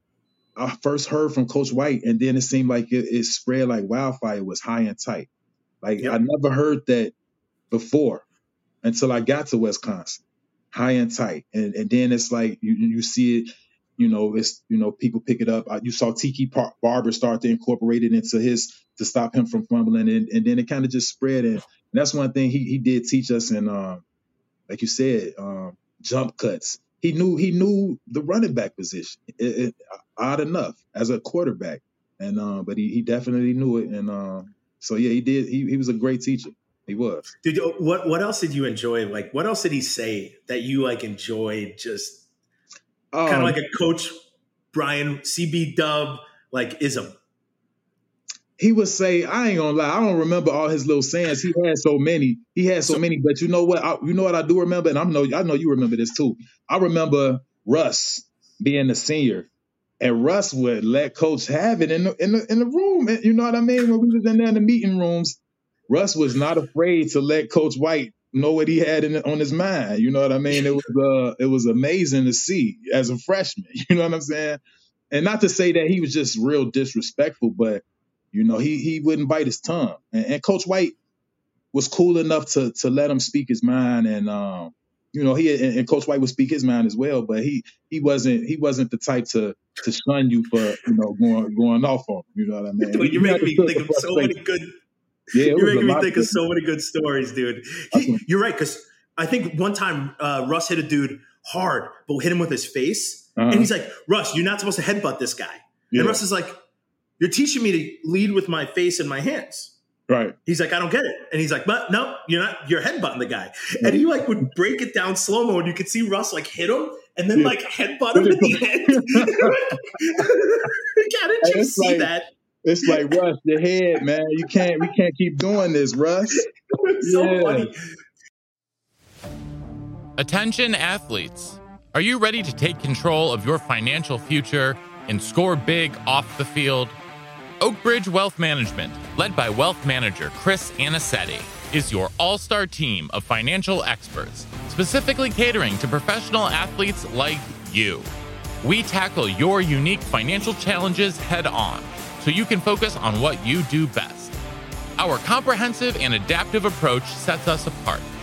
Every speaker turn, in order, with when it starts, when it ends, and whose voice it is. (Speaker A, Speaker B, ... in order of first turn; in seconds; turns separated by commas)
Speaker A: 0.6-5.3, Speaker A: 5.8-7.1, Speaker A: 7.7-8.2, Speaker A: 8.8-24.0, Speaker A: 24.7-37.3, Speaker B: 37.4-42.2, Speaker A: 43.1-43.6, Speaker B: 43.2-44.1, Speaker B: 44.7-47.2, Speaker A: 48.6-59.5, Speaker A: 60.0-81.0, Speaker B: 70.5-70.8, Speaker A: 81.7-94.4, Speaker B: 92.8-94.8, Speaker A: 95.3-96.4, Speaker B: 95.4-106.6, Speaker A: 97.9-98.2, Speaker A: 103.4-103.7, Speaker A: 105.9-106.2, Speaker B: 107.2-109.8, Speaker A: 110.1-110.4, Speaker B: 110.5-122.3, Speaker A: 118.1-119.6, Speaker A: 121.4-122.1, Speaker A: 122.6-126.5, Speaker B: 122.8-123.1, Speaker B: 126.3-127.8, Speaker A: 127.0-127.7, Speaker C: 130.2-137.0, Speaker C: 137.6-148.1, Speaker C: 148.6-154.3, Speaker C: 155.0-158.1